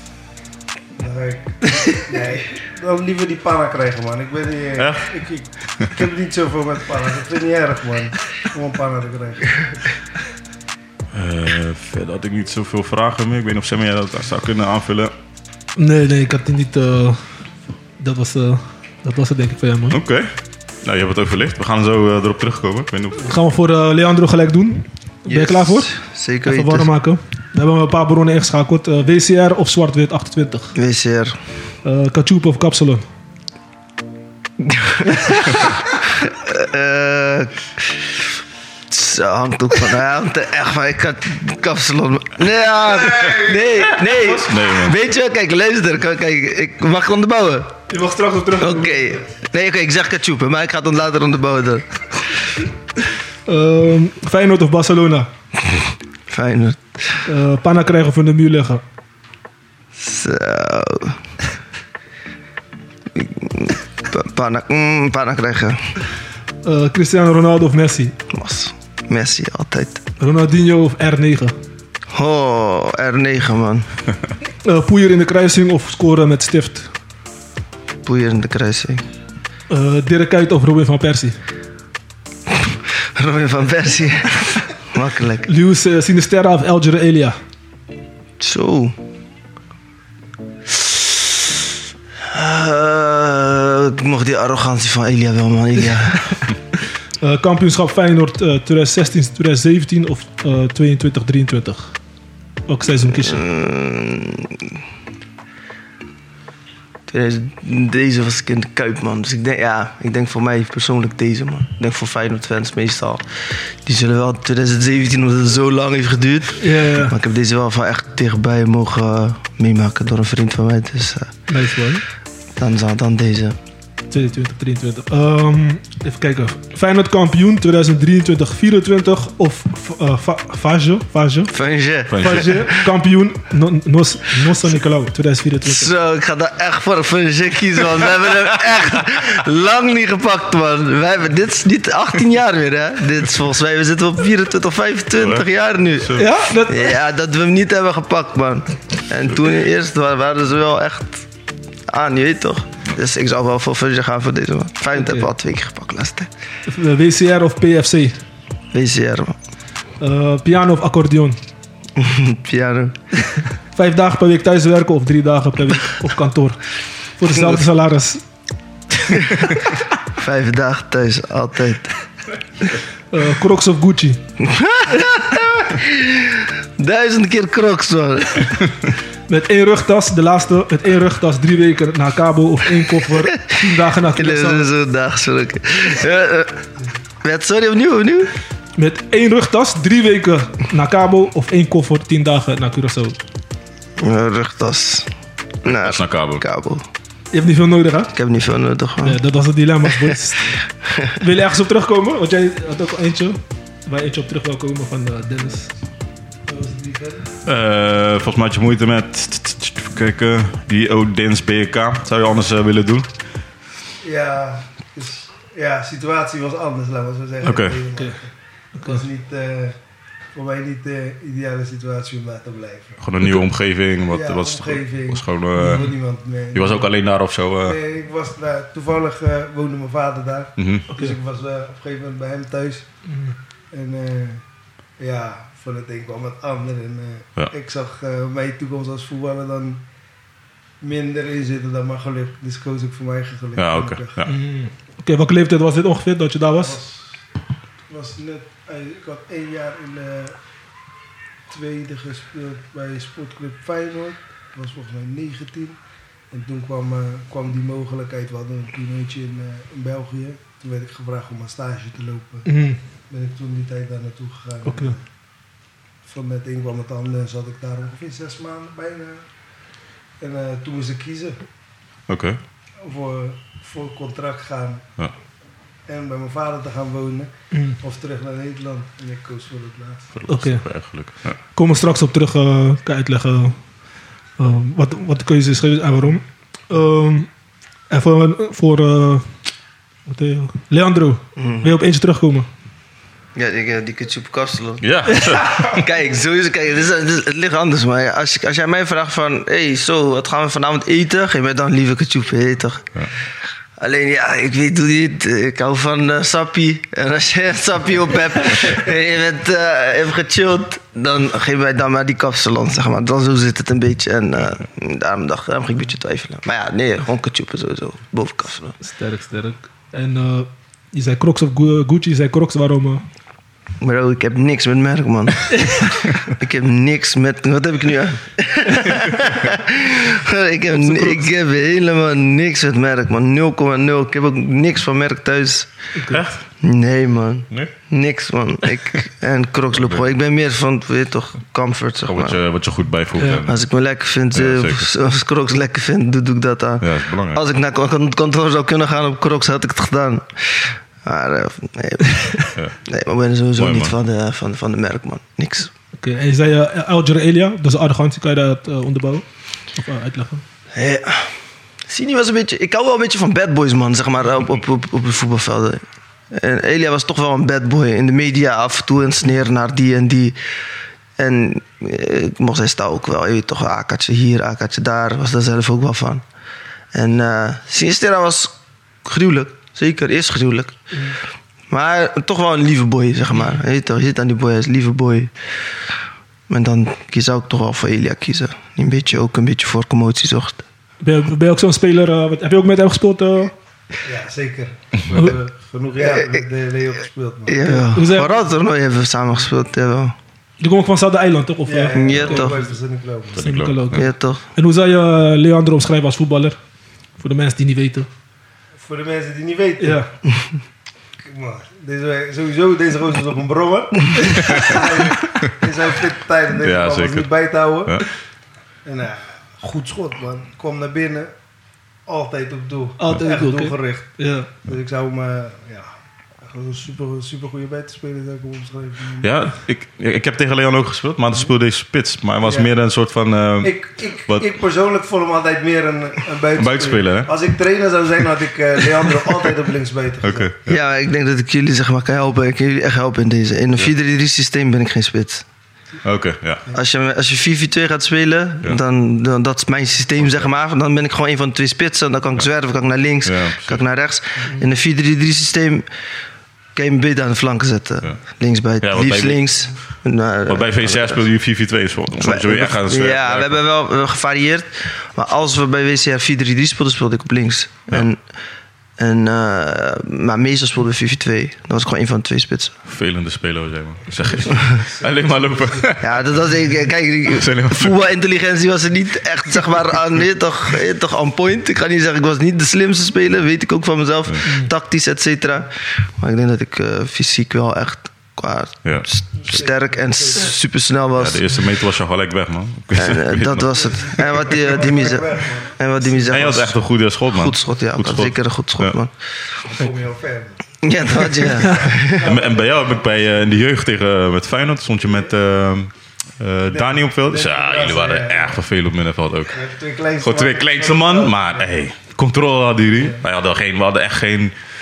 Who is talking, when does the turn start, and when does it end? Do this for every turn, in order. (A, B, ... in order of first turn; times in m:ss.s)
0:01.0-0:09.9 A
0:04.8-0:05.2 B
0:11.1-0:15.1 B
0:15.8-0:17.2 C
0:18.0-0:20.0 C
0:19.9-0:20.3 B
0:20.8-0:23.3 B
0:23.2-0:30.7 C
0:25.2-0:26.9 D
0:30.7-0:31.4 D
0:31.8-0:33.0 C
0:34.6-0:38.2 D
0:38.9-0:47.8 D
0:42.8-0:43.7 A
0:43.9-0:45.0 B
0:47.9-0:49.2 C
0:48.6-0:52.4 D
0:53.5-0:55.3 C
0:55.6-0:57.2 D
0:57.2-0:58.8 C
0:59.9-1:01.2 D
1:03.1-1:05.9 D
1:06.6-1:08.1 C
1:08.3-1:10.0 D
1:10.2-1:11.5 C
1:12.1-1:13.9 D
1:14.6-1:16.9 C
1:18.0-1:19.0 D
1:19.7-1:21.3 C
1:22.5-1:25.5 D
1:25.4-1:27.4 C
1:28.4-1:29.0 D
1:32.3-1:36.4 D
1:37.2-1:41.9 C
1:42.7-1:43.4 C
1:43.0-1:44.8 D
1:47.1-2:01.3 D
1:56.6-1:57.2 C
2:01.5-2:02.0 C
2:02.6-2:03.6 D
2:04.1-2:11.5 C
2:11.5-2:12.9 D
2:12.1-2:12.5 B
2:12.1-2:15.9 C
2:15.6-2:31.2 D
2:25.2-2:25.4 B
2:26.0-2:26.3 B
2:26.1-2:27.0 C
2:31.9-2:36.3 D
2:34.9-2:35.3 C
2:36.7-2:38.1 C
2:38.7-2:39.4 D
2:40.0-2:41.4 C
2:41.9-2:43.0 D
2:43.7-2:46.6 C
2:47.2-2:48.2 C
2:49.2-2:49.5 D
2:50.1-2:51.9 D
2:53.1-2:54.2 C
2:54.4-2:58.7 D
2:59.3-3:04.7 C
3:03.2-3:03.6 D
3:04.1-3:06.7 D
3:07.2-3:08.3 D
3:08.8-3:13.2 C
3:14.0-3:15.1 D
3:15.6-3:16.8 D
3:15.7-3:16.4 B
3:17.3-3:18.1 C
3:18.1-3:19.2 D
3:19.0-3:25.7 C
3:26.5-3:27.3 A
3:27.4-3:33.1 B
3:34.0-3:39.7 A
3:37.4-3:37.8 B
3:38.8-3:39.0 C
3:40.3-3:43.0 A
3:43.0-3:45.9 B
3:44.0-3:46.8 A
3:45.6-3:45.9 C
3:46.5-3:47.8 B
3:47.6-3:52.8 A
3:50.6-3:50.8 B
3:50.9-3:51.2 C
3:53.0-3:53.4 C
3:53.7-3:54.4 A
3:55.0-3:59.8 A
4:00.8-4:04.2 A
4:03.6-4:04.3 B
4:04.2-4:06.8 C
4:06.6-4:07.0 A
4:07.9-4:10.3 A
4:11.5-4:15.8 A
4:16.3-4:22.5 A
4:22.4-4:22.8 C
4:23.1-4:25.0 A
4:24.7-4:24.9 C
4:26.0-4:29.2 A
4:30.2-4:31.4 A
4:32.1-4:32.4 B
4:32.8-4:34.8 A
4:35.9-4:40.0 A
4:37.5-4:37.8 C
4:40.1-4:41.3 B
4:40.3-4:40.6 C
4:41.6-4:43.6 C
4:44.4-4:47.3 C
4:47.9-4:49.3 C
4:50.1-4:52.5 C
4:51.4-4:51.7 D
4:53.3-5:02.9 D
4:54.8-4:55.7 B
5:03.8-5:18.8 D
5:18.8-5:23.0 C
5:23.8-5:35.7 D
5:25.5-5:26.0 C
5:30.8-5:31.2 C
5:36.0-5:36.2 C
5:36.1-5:36.4 B
5:36.6-5:42.4 D
5:42.0-5:43.6 B
5:43.4-5:55.7 D
5:44.3-5:44.9 B
5:46.8-5:47.4 B
5:53.6-5:53.9 B
5:56.0-6:00.4 C
6:00.7-6:01.3 D
6:01.9-6:10.4 D
6:11.2-6:16.2 D
6:16.9-6:20.8 D
6:21.7-6:25.3 D
6:26.5-6:30.6 D
6:31.0-6:33.5 C
6:34.0-6:37.7 A
6:35.1-6:35.3 C
6:36.0-6:36.4 D
6:37.5-6:40.2 D
6:37.6-6:38.4 C
6:40.6-6:42.5 C
6:41.6-6:43.4 A
6:41.9-6:42.6 D
6:43.3-6:44.0 B
6:43.4-6:46.6 C
6:43.9-6:44.4 D
6:47.2-6:48.1 C
6:48.8-6:50.1 A
6:49.8-6:50.1 C
6:51.2-6:58.0 A
6:54.4-6:54.8 B
6:56.5-6:57.3 B
6:58.8-7:01.3 A
7:02.0-7:05.9 A
7:03.0-7:04.5 C
7:06.4-7:09.3 A
7:09.2-7:14.5 B
7:12.4-7:12.7 A
7:13.6-7:20.5 A
7:16.6-7:17.3 B
7:20.2-7:20.8 B
7:20.6-7:25.4 D
7:26.0-7:26.6 B
7:26.7-7:35.8 D
7:30.2-7:30.5 B
7:33.2-7:33.8 B
7:36.7-7:41.2 D
7:38.8-7:39.4 B
7:40.4-7:43.6 B
7:42.2-7:48.2 D
7:49.0-7:52.7 D
7:52.8-7:56.5 B
7:54.4-7:55.9 A
7:56.0-8:11.4 D
7:57.2-7:58.1 B
8:04.4-8:04.7 C
8:09.4-8:10.5 A
8:11.2-8:14.3 B
8:12.9-8:19.6 D
8:13.7-8:16.3 A
8:16.3-8:19.0 B
8:19.6-8:23.6 A
8:20.8-8:22.3 D
8:22.1-8:29.6 B
8:26.7-8:28.6 A
8:29.5-8:31.8 A
8:30.2-8:34.6 B
8:33.0-8:33.2 A